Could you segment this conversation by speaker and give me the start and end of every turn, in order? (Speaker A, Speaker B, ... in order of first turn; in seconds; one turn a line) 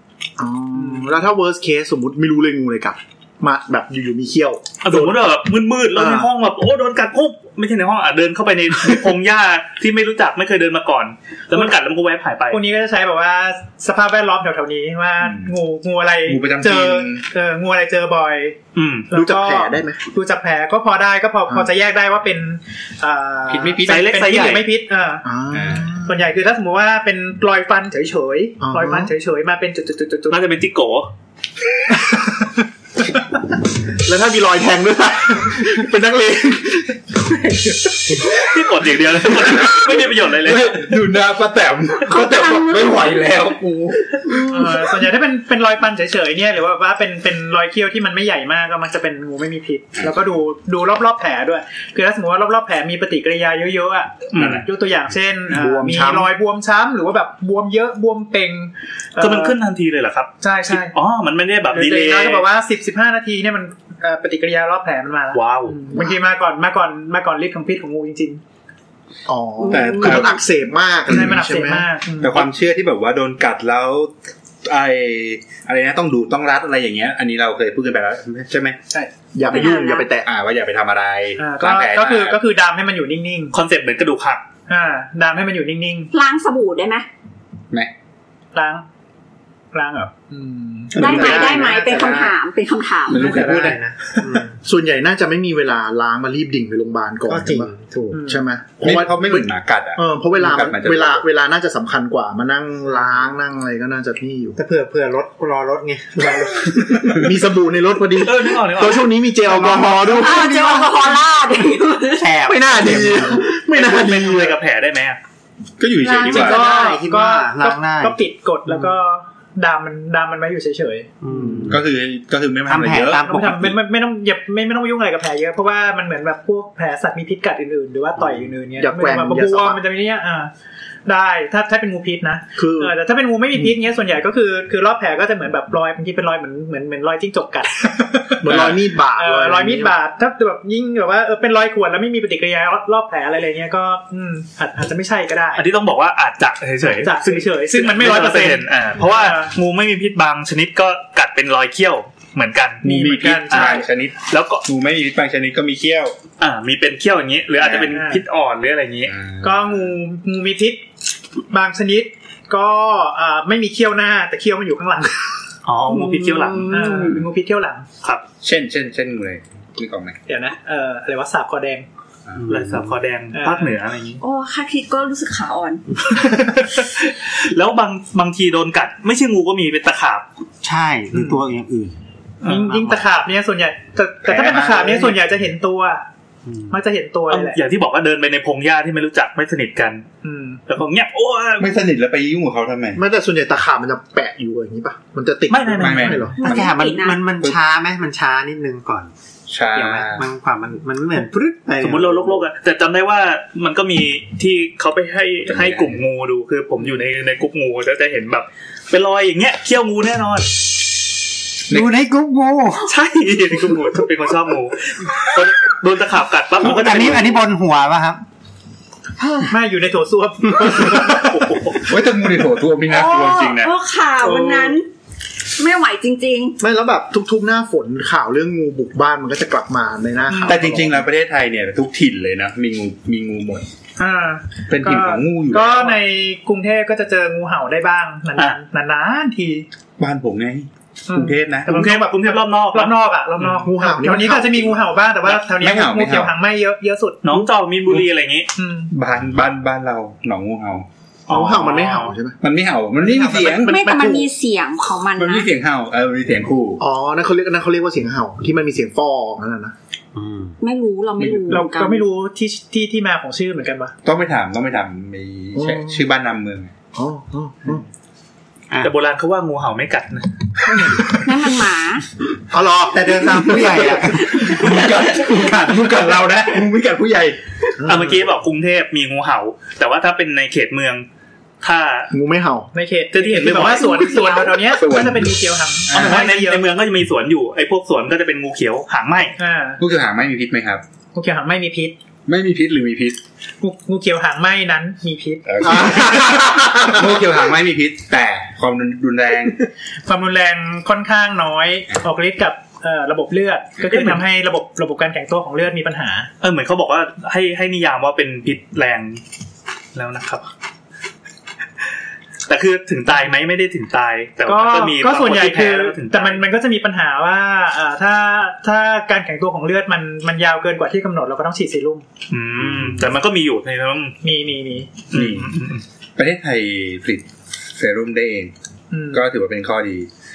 Speaker A: 0.4-5.1
Speaker B: 0.7-1.1
Speaker C: 4.8-12.6
Speaker A: 5.9-6.3
Speaker B: 12.5-18.6
Speaker D: 15.2-15.5
Speaker D: 16.3-17.2
Speaker C: 18.7-19.1
Speaker B: 19.1-25.2
Speaker A: 19.1-20.0
Speaker D: 23.5-24.0
Speaker C: 23.9-24.7
Speaker A: 25.2-26.1
Speaker D: 25.5-25.9
Speaker B: 26.0-30.4
Speaker A: 28.6-29.1
Speaker C: 30.3-31.1
Speaker A: 34.0-38.2
Speaker C: 38.2-40.9
Speaker D: 40.3-44.5
Speaker E: 42.0-43.2
Speaker E: 44.2-44.9
Speaker B: 44.5-59.6
Speaker C: 54.3-54.6
Speaker D: 54.4-54.6
Speaker A: 55.5-56.3
Speaker C: 59.2-62.5
Speaker B: 60.4-60.9
Speaker B: 61.7-68.4
Speaker C: 65.3-65.8
Speaker A: 69.3-71.9
Speaker E: 69.6-70.3
Speaker D: 69.7-70.4
Speaker B: 71.1-72.5
Speaker D: 72.2-78.8
Speaker A: 79.3-80.3
Speaker E: 79.5-80.1
Speaker D: 80.2-82.4
Speaker B: 81.4-83.5
Speaker C: 83.5-84.4
Speaker B: 84.7-86.1
Speaker E: 86.1-87.0
Speaker B: 88.5-88.8
Speaker B: 89.7-91.4
Speaker A: 90.9-91.8
Speaker D: 91.0-92.3
Speaker E: 91.0-93.3
Speaker F: 91.8-92.2
Speaker D: 93.1-94.2
Speaker F: 93.2-94.5
Speaker A: 94.6-97.7
Speaker F: 97.3-98.2
Speaker B: 98.1-98.4
Speaker A: 98.3-104.6
Speaker D: 98.8-101.2
Speaker F: 104.5-107.2
Speaker A: 106.8-110.9
Speaker C: 108.2-109.1
Speaker E: 110.0-112.4
Speaker F: 112.1-113.5
Speaker A: 112.5-114.6
Speaker C: 113.7-115.2
Speaker D: 115.8-116.7
Speaker F: 116.1-119.0
Speaker E: 116.1-116.9
Speaker B: 116.2-121.1
Speaker F: 121.2-121.8
Speaker A: 121.3-121.6
Speaker D: 121.7-123.2
Speaker F: 122.7-123.8
Speaker B: 123.2-130.5
Speaker A: 128.8-129.8
Speaker B: 131.1-138.4
Speaker A: 132.6-132.9
Speaker A: 138.4-139.9
Speaker D: 138.5-138.8
Speaker B: 139.1-145.6
Speaker C: 145.6-152.8
Speaker B: 146.8-149.5
Speaker D: 152.8-156.2
Speaker B: 152.8-153.9
Speaker C: 153.5-154.6
Speaker C: 156.4-159.1
Speaker D: 157.6-157.9
Speaker B: 157.8-158.2
Speaker D: 159.1-159.9
Speaker B: 159.4-160.8
Speaker B: 161.5-165.3
Speaker C: 165.6-166.9
Speaker E: 165.9-167.2
Speaker B: 166.7-167.8
Speaker D: 168.4-170.2
Speaker B: 170.3-171.8
Speaker F: 172.3-172.9
Speaker C: 172.5-174.2
Speaker B: 173.3-173.7
Speaker E: 174.2-175.8
Speaker C: 176.0-180.2
Speaker F: 180.6-181.9
Speaker B: 181.1-181.4
Speaker C: 182.4-182.8
Speaker B: 182.4-186.0
Speaker F: 182.7-183.0
Speaker D: 184.2-185.2
Speaker F: 186.5-186.7
Speaker B: 186.7-187.6
Speaker C: 187.3-190.1
Speaker B: 190.2-190.6
Speaker C: 190.7-191.8
Speaker D: 191.6-193.0
Speaker A: 192.9-196.4
Speaker C: 195.5-196.4
Speaker D: 195.8-196.6
Speaker E: 196.4-197.2
Speaker F: 196.4-199.1
Speaker D: 199.5-200.3
Speaker F: 199.7-202.4
Speaker C: 201.8-210.5
Speaker D: 205.4-206.0
Speaker F: 211.7-212.9
Speaker C: 212.8-217.4
Speaker F: 216.6-218.2
Speaker B: 219.5-221.5
Speaker C: 221.0-221.8
Speaker D: 221.8-223.7
Speaker E: 222.9-224.8
Speaker B: 224.2-224.8
Speaker E: 225.6-226.6
Speaker A: 226.6-231.1
Speaker B: 230.3-230.6
Speaker D: 230.5-233.7
Speaker B: 234.0-239.7
Speaker D: 234.7-236.0
Speaker D: 240.0-241.7
Speaker B: 241.1-247.4
Speaker C: 241.7-243.0
Speaker A: 243.5-244.8
Speaker D: 245.2-246.3
Speaker C: 247.2-248.5
Speaker B: 248.6-248.9
Speaker D: 248.9-250.8
Speaker C: 251.3-252.1
Speaker A: 251.3-252.4
Speaker D: 252.4-253.8
Speaker B: 253.0-254.3
Speaker E: 253.7-255.5
Speaker D: 255.2-256.8
Speaker A: 256.8-259.7
Speaker F: 260.1-260.6
Speaker E: 260.6-262.0
Speaker D: 261.2-261.7
Speaker B: 261.5-263.9
Speaker D: 264.0-266.7
Speaker A: 265.5-266.0
Speaker A: 266.9-267.8
Speaker C: 268.8-270.3
Speaker A: 270.6-271.1
Speaker E: 271.1-272.0
Speaker A: 272.5-274.1
Speaker F: 272.9-275.8
Speaker D: 273.9-277.4
Speaker A: 277.8-278.2
Speaker C: 277.9-281.1
Speaker C: 281.6-282.1
Speaker A: 282.1-282.7
Speaker B: 282.7-286.6
Speaker C: 283.1-284.4
Speaker E: 283.9-284.6
Speaker D: 284.6-285.3
Speaker D: 285.9-286.2
Speaker C: 285.9-289.4
Speaker B: 289.4-289.8
Speaker D: 289.8-290.8
Speaker B: 291.1-291.9
Speaker D: 292.3-293.2
Speaker B: 293.6-295.9
Speaker D: 295.4-299.6
Speaker A: 295.6-297.2
Speaker B: 300.1-306.3
Speaker C: 303.9-304.2
Speaker C: 306.4-309.2
Speaker C: 309.9-310.5
Speaker C: 312.5-316.4
Speaker B: 314.4-322.0
Speaker C: 322.3-324.2
Speaker B: 324.2-324.9
Speaker C: 325.1-325.8
Speaker D: 325.1-325.5
Speaker D: 326.2-328.5
Speaker B: 328.9-329.2
Speaker D: 329.1-330.1